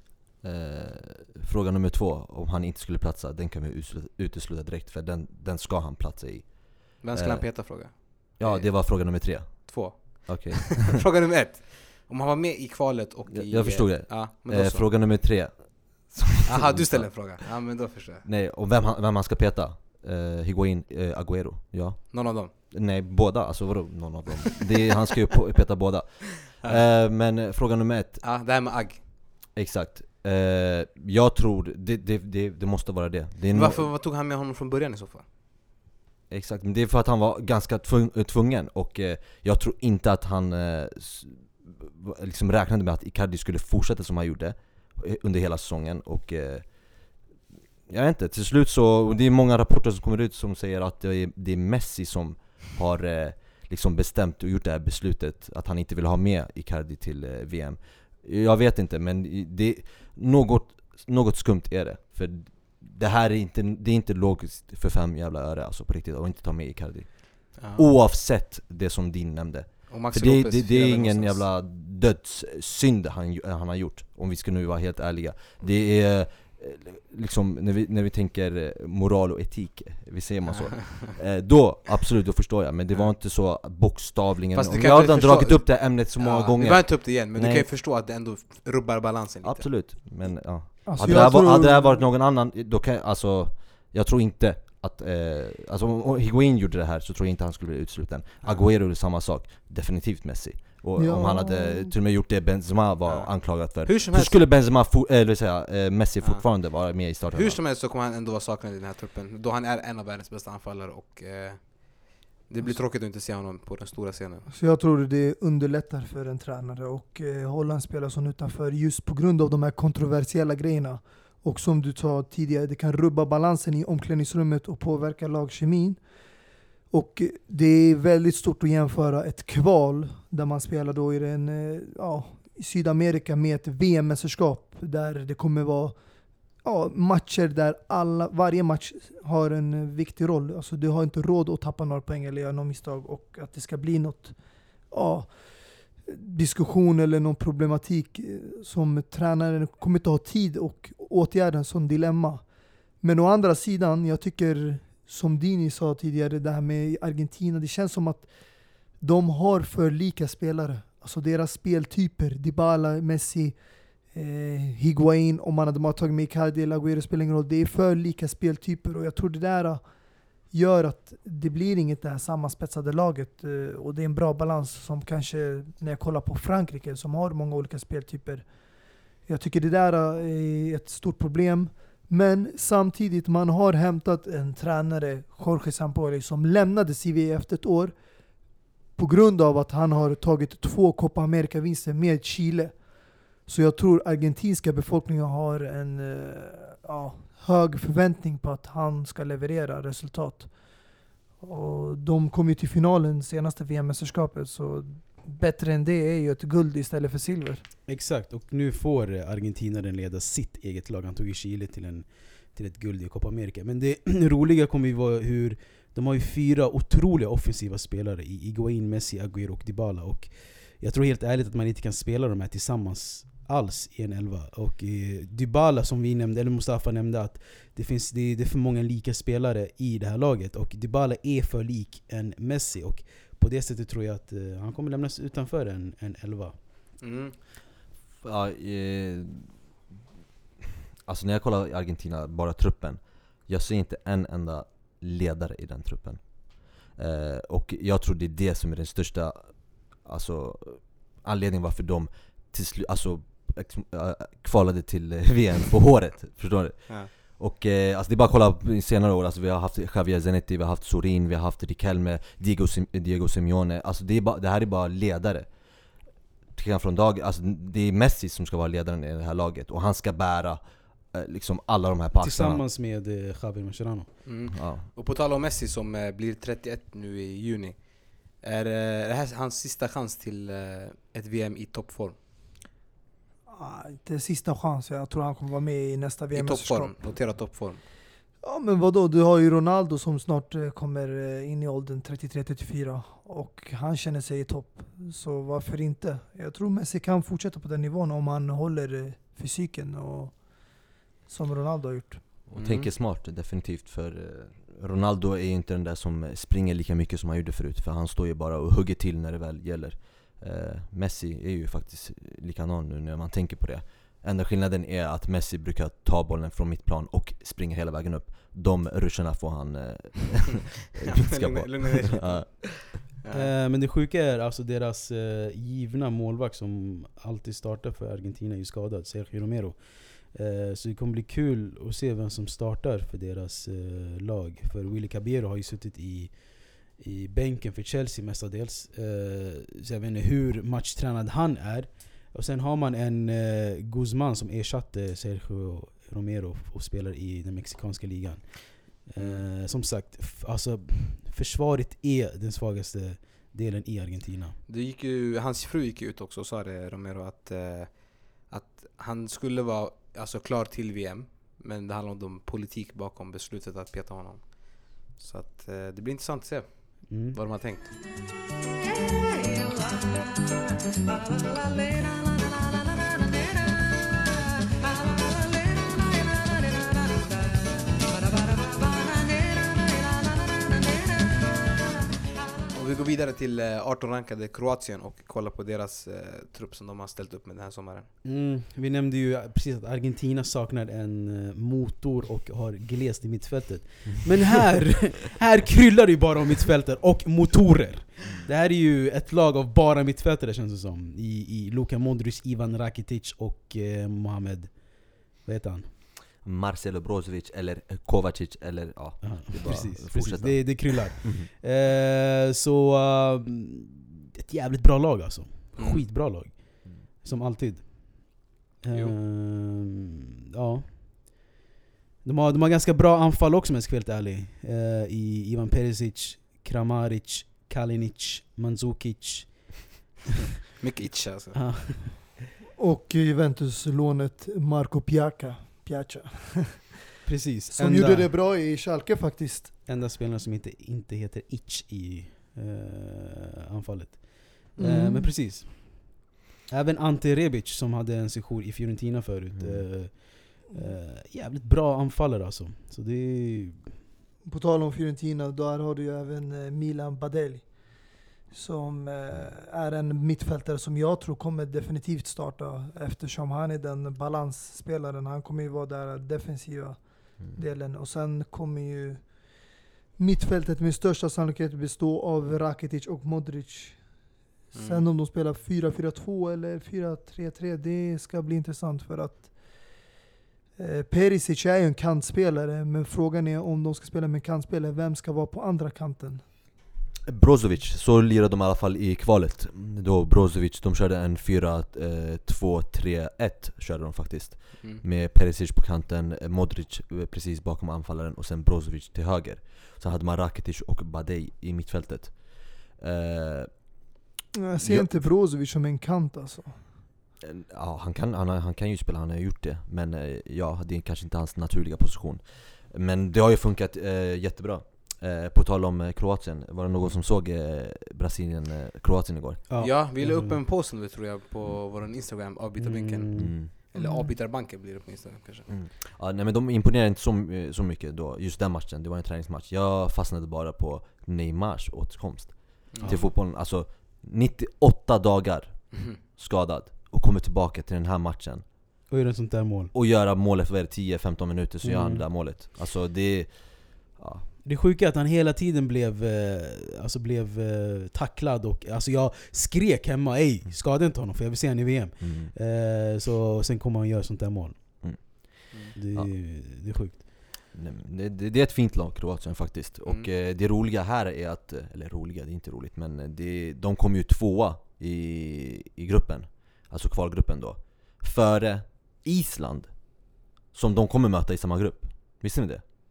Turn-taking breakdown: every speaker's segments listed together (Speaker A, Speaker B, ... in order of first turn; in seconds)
Speaker A: 0.4-11.0, 13.3-17.5, 18.2-28.2, 29.5-33.9, 36.3-47.1, 47.9-87.7, 89.4-107.6, 238.2-239.6, 241.1-265.5, 266.5-272.6, 274.5-274.9, 302.5-322.5, 406.4-411.5, 449.5-450.2, 467.4-467.6, 487.3-503.8, 504.8-505.3, 507.4-519.6, 523.4-523.7, 525.7-538.7, 539.9-544.5, 552.2-552.5, 555.0-556.4, 557.7-572.8
Speaker B: 7.0-15.1, 16.4-18.2, 22.1-22.5, 26.5-26.8, 28.2-29.1, 33.5-35.3, 67.6-67.8, 69.9-71.5, 80.5-81.0, 84.5-89.7, 103.0-104.5, 106.2-114.5, 237.0-237.4, 274.2-282.2, 286.3-287.8, 302.6-302.9, 321.0-323.5, 349.1-349.4, 354.7-367.9, 382.7-388.1, 415.8-416.0, 430.8-432.1, 474.7-475.1, 519.8-525.7, 532.9-533.2
Speaker C: 90.8-92.0, 101.0-101.9, 114.5-126.0, 126.9-136.0, 136.6-144.3, 144.9-145.3, 146.0-152.4, 153.0-158.3, 159.0-163.6, 164.1-169.8, 170.5-178.5, 179.2-187.9, 188.9-192.8, 193.4-200.7, 201.4-207.6, 283.5-286.9, 288.4-302.2, 432.8-436.9, 437.7-439.8, 444.8-445.3, 454.4-480.1, 480.8-486.4, 504.5-506.9, 523.9-524.3
Speaker D: 207.9-236.7, 272.2-274.2, 323.3-354.6, 367.1-367.4, 388.2-405.9, 409.2-421.5, 422.2-430.1, 431.5-432.4, 437.2-438.3, 439.9-454.0, 519.7-520.6, 522.8-523.7, 539.1-539.9, 541.8-542.3, 544.6-557.2